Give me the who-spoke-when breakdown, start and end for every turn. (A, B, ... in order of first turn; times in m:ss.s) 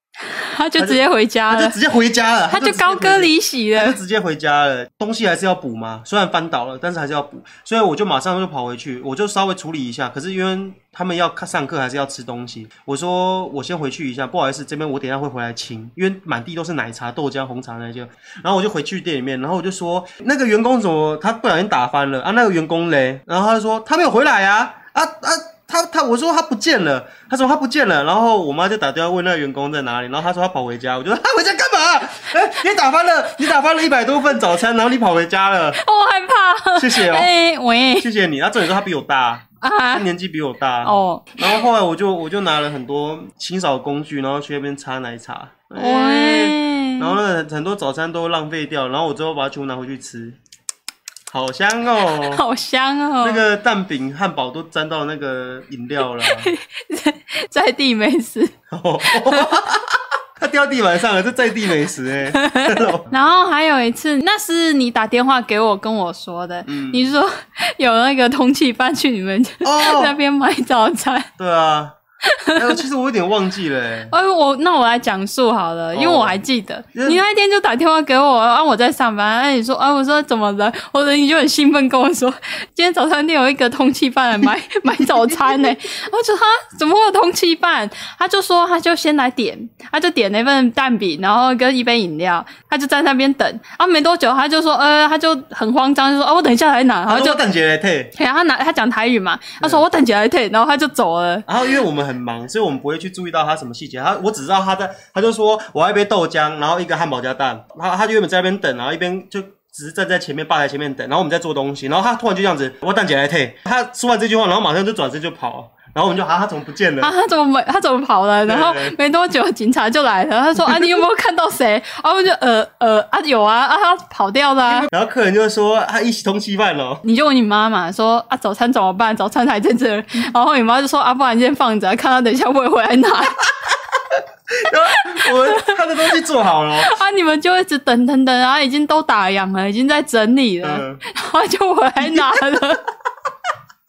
0:00.2-0:01.8 A
0:00.8-0:35.8 B
0:02.5-0:04.0 A
0:35.8-0:38.1 A
0:36.8-0:37.3 B
0:38.0-0:50.4 B
0:39.6-0:40.1 A
0:40.8-0:41.6 A
0:45.8-0:47.2 A
0:51.3-0:52.4 B
0:52.1-0:53.4 A
0:53.2-0:56.5 B
0:56.2-0:58.5 A
0:58.7-1:03.1 B
0:59.0-0:59.5 A
1:02.3-1:11.3 A
1:06.7-1:07.1 B
1:09.6-1:10.2 B
1:11.4-1:12.0 B
1:12.4-1:12.8 A
1:12.6-1:14.1 B
1:14.1-1:37.4 A
1:15.9-1:16.4 B
1:16.9-1:17.2 B
1:25.0-1:25.7 B
1:37.1-1:38.1 B
1:38.2-1:41.5 A
1:41.5-1:57.1 B
1:57.0-2:04.9 A
1:58.5-1:59.0 B
2:00.6-2:00.9 B
2:04.7-2:07.0 B
2:07.0-2:13.4 A
2:14.2-2:16.9 B
2:15.0-2:15.8 A
2:16.8-2:22.8 A
2:20.6-2:21.0 B
2:22.0-2:22.7 B